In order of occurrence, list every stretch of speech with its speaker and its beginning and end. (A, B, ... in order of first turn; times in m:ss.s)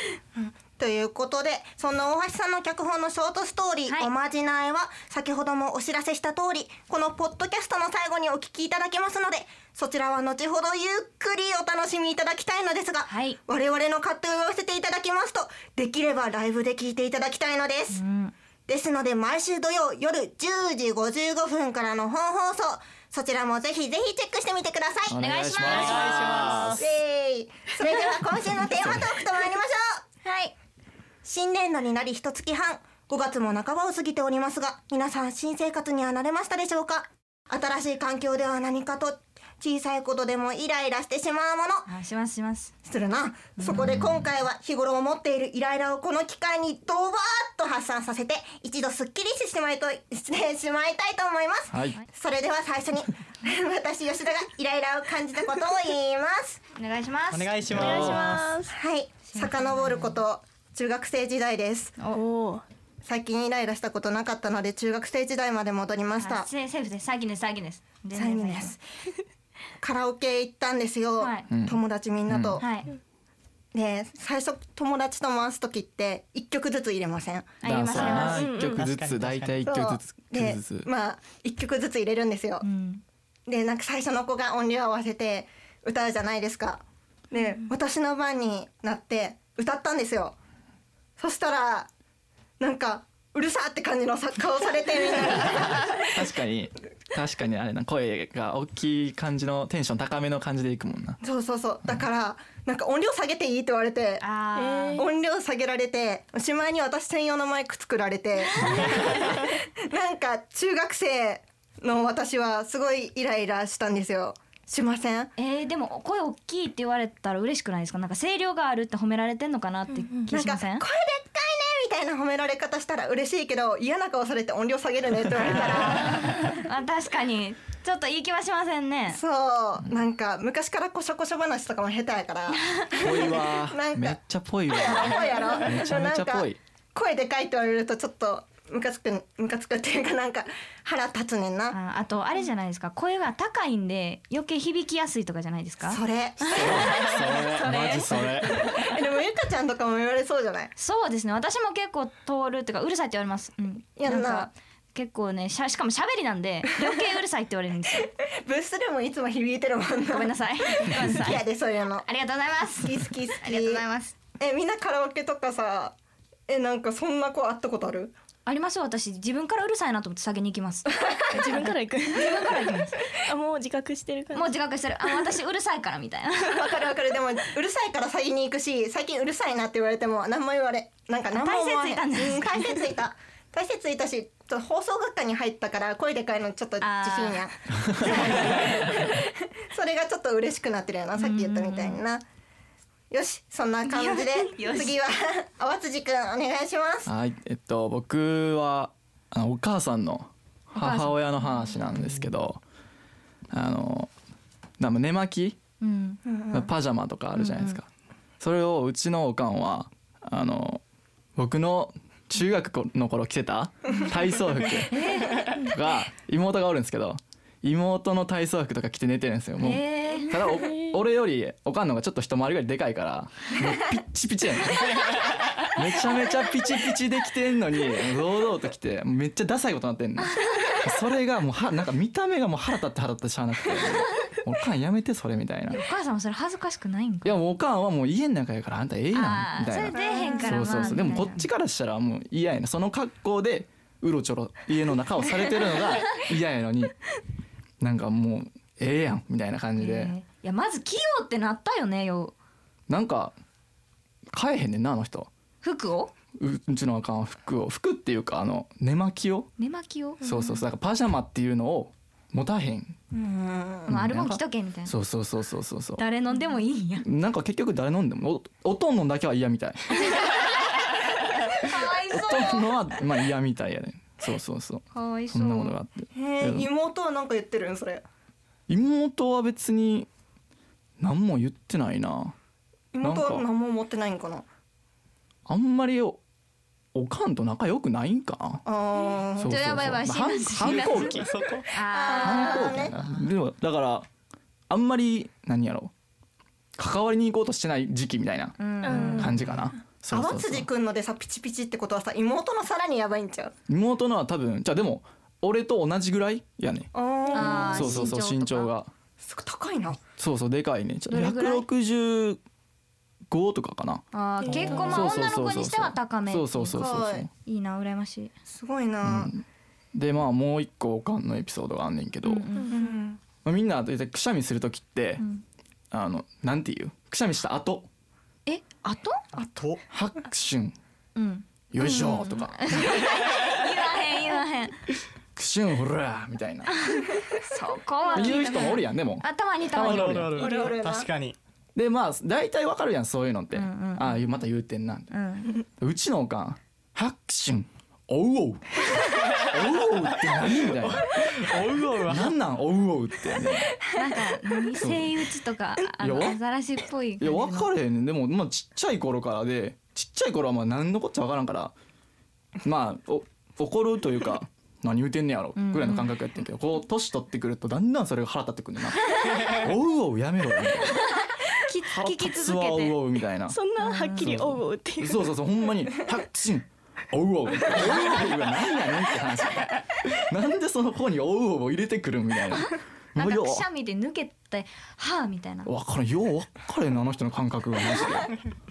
0:00.4-0:18.0 A
0:13.1-0:13.4 B
0:17.9-0:18.3 B
0:18.7-0:25.2 A
0:25.1-0:26.8 C
0:25.1-0:26.7 B
0:25.6-0:26.9 D
0:26.8-0:30.0 A
0:28.5-0:29.0 C
0:30.2-0:30.5 B
0:31.2-0:41.9 A
0:41.9-0:42.7 B
0:42.8-0:56.6 A
0:43.6-0:43.9 B
0:51.7-0:52.0 C
0:56.8-0:57.6 B
0:57.3-0:58.5 D
0:57.7-0:58.4 C
0:57.7-0:58.8 E
0:58.7-1:02.0 A
0:59.3-1:00.2 B
1:02.1-1:02.6 E
1:03.0-1:06.5 A
1:06.2-1:08.8 B
1:08.2-1:08.8 A
1:09.8-1:12.7 A
1:11.2-1:11.5 B
1:11.5-1:12.6 C
1:12.6-1:12.9 B
1:13.7-1:17.6 A
1:17.6-1:18.5 B
1:17.6-1:20.9 C
1:18.1-1:18.8 E
1:18.6-1:19.6 D
1:19.6-1:22.6 A
1:22.6-1:23.0 B
1:23.5-1:30.4 A
1:31.2-1:31.9 A
1:32.6-1:36.1 A
1:36.1-1:41.2 C
1:41.2-1:44.2 A
1:44.2-1:45.1 B
1:44.6-1:45.1 E
1:45.0-1:55.3 A
1:55.4-2:00.8 B
1:59.9-2:00.3 E
2:00.3-2:06.6 A
2:05.5-2:09.2 B
2:09.1-2:14.2 A
2:12.9-2:16.6 C
2:14.7-2:21.8 A
2:21.7-2:28.1 B
2:25.9-2:26.8 A
2:26.5-2:28.7 C
2:28.6-2:30.7 A
2:30.8-2:38.1 B
2:34.0-2:34.5 A
2:38.4-2:42.0 A
2:40.1-2:41.5 B
2:42.0-2:44.2 B
2:42.8-2:43.8 A
2:44.4-2:46.0 A
2:46.5-2:48.2 A
2:48.5-2:53.0 B
2:51.3-2:52.7 E
2:53.2-2:54.5 E
2:54.3-2:56.6 B
2:56.5-3:12.2 A
3:01.3-3:02.8 B
3:06.8-3:07.5 B
3:07.8-3:08.2 C
3:11.2-3:12.0 B
3:13.1-3:17.1 A
3:13.8-3:15.0 B
3:17.1-3:22.6 C
3:20.7-3:21.8 B
3:23.5-3:24.1 C
3:24.8-3:25.6 C
3:25.8-3:26.2 B
3:26.3-3:26.7 A
3:26.5-3:27.9 C
3:27.4-3:27.8 B
3:28.4-3:30.8 C
3:31.4-3:35.1 C
3:34.9-3:35.5 B
3:35.7-3:45.0 C
3:39.6-3:40.3 B
3:40.4-3:41.0 E
3:45.7-3:55.8 C
3:50.4-3:50.7 B
3:55.7-3:57.4 B
3:57.2-4:07.0 C
3:59.1-4:01.5 B
3:59.9-4:00.9 A
4:07.8-4:10.2 C
4:09.8-4:12.3 B
4:12.9-4:13.4 C
4:14.3-4:15.3 C
4:15.6-4:16.1 B
4:16.4-4:19.5 C
4:19.6-4:20.2 B
4:20.2-4:23.0 C
4:20.2-4:20.5 E
4:23.1-4:23.9 A
4:23.9-4:25.0 B
4:23.9-4:26.0 C
4:26.0-4:27.1 B
4:27.0-4:30.3 C
4:30.1-4:30.8 B
4:31.5-4:32.8 B
4:32.1-4:36.7 C
4:34.9-4:35.8 B
4:36.2-4:38.0 A
4:38.7-4:40.1 C
4:41.0-4:42.4 C
4:42.9-4:44.5 A
4:43.0-4:43.5 C
4:45.5-4:46.2 C
4:46.9-4:48.6 C
4:48.7-4:49.6 A
4:49.4-4:51.3 C
4:49.4-4:52.9 B
4:51.2-4:51.7 D
4:51.9-4:52.9 A
4:52.2-4:54.1 C
4:54.7-4:55.9 C
4:56.8-5:00.7 C
4:58.6-4:59.4 B
4:58.8-4:59.3 E
5:00.1-5:03.5 A
5:03.7-5:08.9 C
5:06.9-5:08.1 A
5:07.3-5:08.7 B
5:09.2-5:10.0 A
5:10.2-5:12.4 C
5:11.1-5:11.7 B
5:13.3-5:17.3 C
5:14.1-5:16.9 B
5:14.4-5:15.0 E
5:16.7-5:17.3 A
5:17.4-5:18.3 B
5:18.5-5:19.3 A
5:19.0-5:19.4 C
5:20.0-5:22.4 C
5:22.2-5:22.8 B
5:22.6-5:22.9 E
5:22.7-5:23.2 A
5:23.4-5:25.2 C
5:25.9-5:27.9 C
5:28.5-5:29.2 B
5:29.4-5:29.8 D
5:29.9-5:30.8 C
5:31.2-5:34.8 B
5:31.7-5:32.9 C
5:35.4-5:36.8 C
5:36.8-5:40.5 B
5:38.1-5:40.4 C
5:39.7-5:41.4 D
5:40.4-5:41.1 A
5:41.8-5:45.1 C
5:43.5-5:44.2 B
5:45.1-5:45.6 B
5:45.8-5:51.5 C
5:50.8-5:52.3 D
5:52.1-5:53.8 C
5:53.9-5:57.7 B
5:54.8-5:55.2 C
5:56.0-5:56.4 C
5:57.2-6:01.7 C
6:02.6-6:11.1 C
6:05.6-6:06.1 B
6:11.5-6:13.0 B
6:11.9-6:13.6 C
6:13.5-6:15.3 E
6:13.8-6:14.4 B
6:14.2-6:23.7 C
6:23.2-6:25.7 B
6:25.7-6:28.4 C